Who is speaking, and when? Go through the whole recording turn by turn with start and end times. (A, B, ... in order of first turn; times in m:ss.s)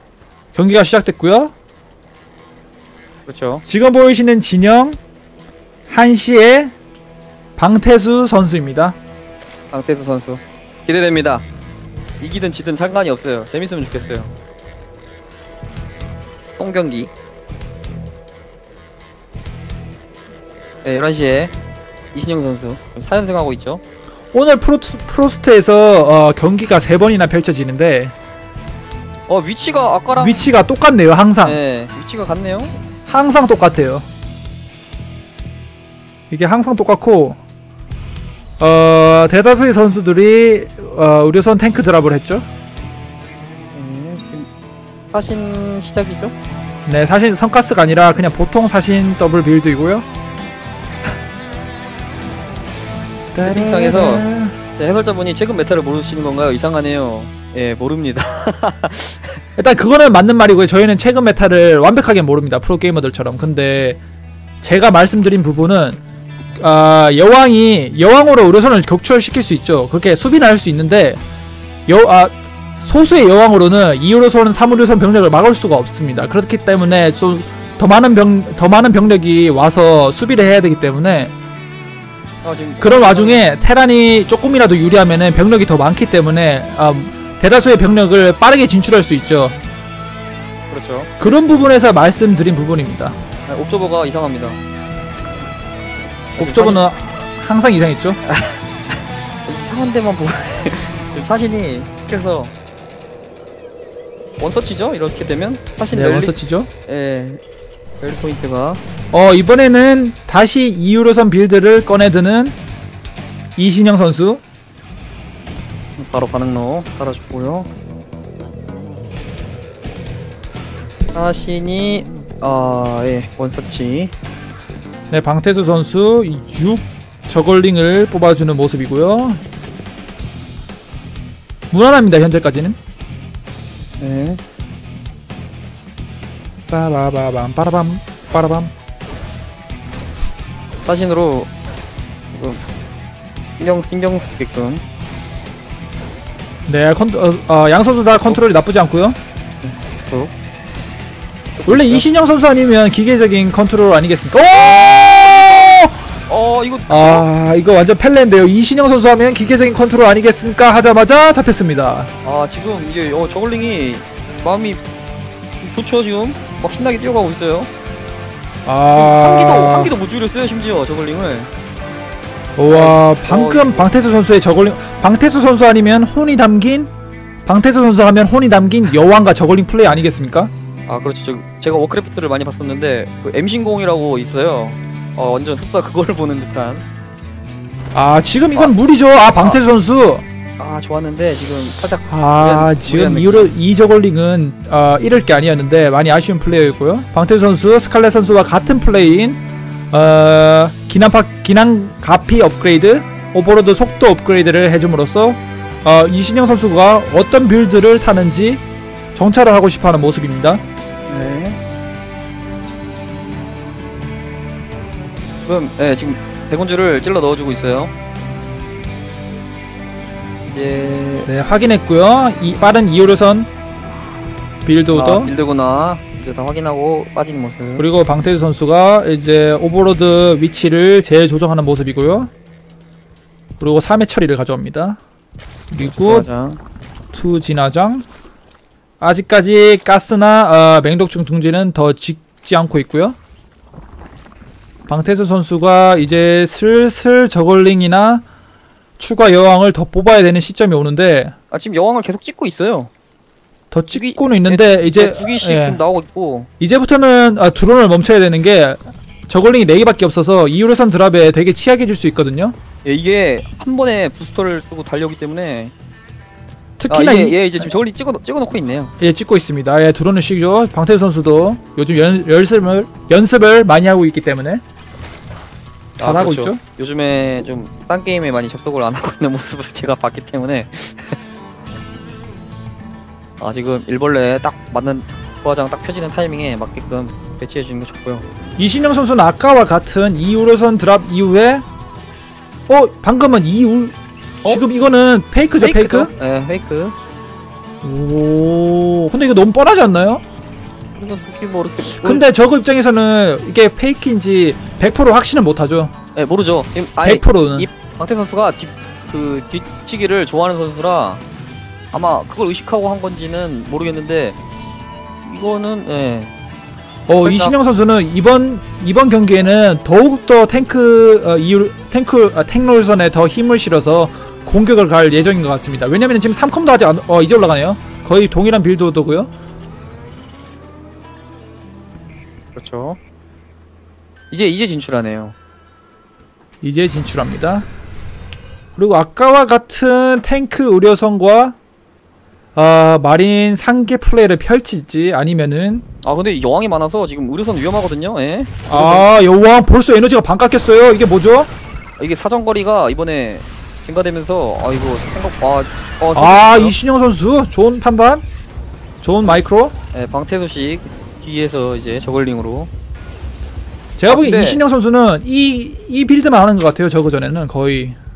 0:00.5-0:01.5 A
0:03.3-0:03.6 B
0:03.6-0:05.0 A
0:05.9-0:06.7 A
0:07.6-0:09.0 A
0:09.7-0:11.5 B
0:12.2-0:14.3 B
0:16.6-0:17.1 B
0:20.8-0:21.5 B
0:22.1-0:23.8 B
0:24.3-0:28.1 A
0:29.3-0:30.5 B
0:30.2-0:31.6 A
0:31.4-0:32.7 B
0:33.1-0:34.1 A
0:36.3-0:37.4 A
0:38.6-0:42.5 A
0:43.7-0:44.5 B
0:45.1-0:46.3 B
0:46.9-0:50.1 A
0:53.3-0:54.6 A
0:53.4-0:54.2 B
0:54.8-0:59.3 B
0:59.6-1:04.0 A
1:04.6-1:06.0 A
1:06.6-1:11.2 A
1:11.9-1:21.3 A
1:22.4-1:23.5 B
1:22.8-1:29.6 A
1:30.7-1:31.1 B
1:31.2-1:33.2 A
1:33.5-1:34.6 B
1:36.4-1:36.8 B
1:36.4-1:38.2 A
1:38.2-1:42.5 B
1:44.4-1:46.4 B
1:45.9-1:46.7 A
1:46.9-1:47.4 B
1:48.0-1:48.8 B
1:49.1-1:52.6 A
1:53.6-1:54.4 A
1:56.0-1:57.7 B
2:01.1-2:04.1 B
2:05.1-2:09.4 A
2:11.7-2:12.8 A
2:14.0-2:14.4 B
2:16.7-2:18.7 A
2:20.8-2:21.5 B
2:22.3-2:22.6 B
2:23.6-2:24.8 B
2:26.7-2:29.2 A
2:29.6-2:30.3 B
2:31.6-2:32.0 B
2:31.7-2:36.0 A
2:36.3-2:37.2 B
2:36.9-2:42.1 A
2:42.2-2:44.8 B
2:45.6-2:47.7 B
2:48.6-2:49.9 A
2:48.9-2:51.5 B
2:52.6-2:56.9 A
2:52.7-2:53.9 B
2:57.5-3:00.5 A
3:00.9-3:06.8 B
3:07.9-3:10.2 A
3:10.6-3:13.5 B
3:12.1-3:28.6 A
3:29.2-3:30.6 A
3:31.1-3:31.6 B
3:35.4-3:37.9 B
3:40.4-3:41.3 B
3:41.3-3:43.5 A
3:44.6-3:45.3 A
3:44.9-3:47.9 B
3:47.8-3:52.3 A
3:53.6-3:55.0 A
3:55.7-3:56.3 A
3:55.8-3:56.6 B
3:57.1-3:58.1 A
3:59.0-4:03.2 A
4:04.9-4:08.2 A
4:09.0-4:11.3 A
4:11.5-4:12.9 B
4:13.7-4:15.8 A
4:13.9-4:16.5 B
4:16.6-4:22.6 A
4:22.8-4:25.7 B
4:26.8-4:27.7 A
4:26.9-4:28.9 B
4:29.0-4:34.6 A
4:36.0-4:41.2 B
4:36.0-4:36.6 A
4:43.4-4:48.2 B
4:48.6-4:51.6 A
4:52.7-4:56.1 A
4:55.6-4:57.0 B
4:57.8-5:00.2 A
5:01.0-5:02.3 B
5:01.8-5:05.9 A
5:06.2-5:11.2 B
5:07.0-5:07.7 A
5:11.9-5:14.4 B
5:15.2-5:16.3 B
5:17.1-5:29.3 A
5:17.2-5:17.6 B
5:32.6-5:33.0 B
5:34.3-5:35.4 B
5:36.6-5:37.7 A
5:38.8-5:41.6 A
5:42.6-5:45.8 A
5:46.0-5:49.1 B
5:48.7-5:51.5 A
5:52.0-5:56.8 B
5:56.2-5:58.2 A
5:59.0-5:59.7 A
5:59.9-6:02.7 B
6:04.0-6:08.0 A
6:04.1-6:04.6 B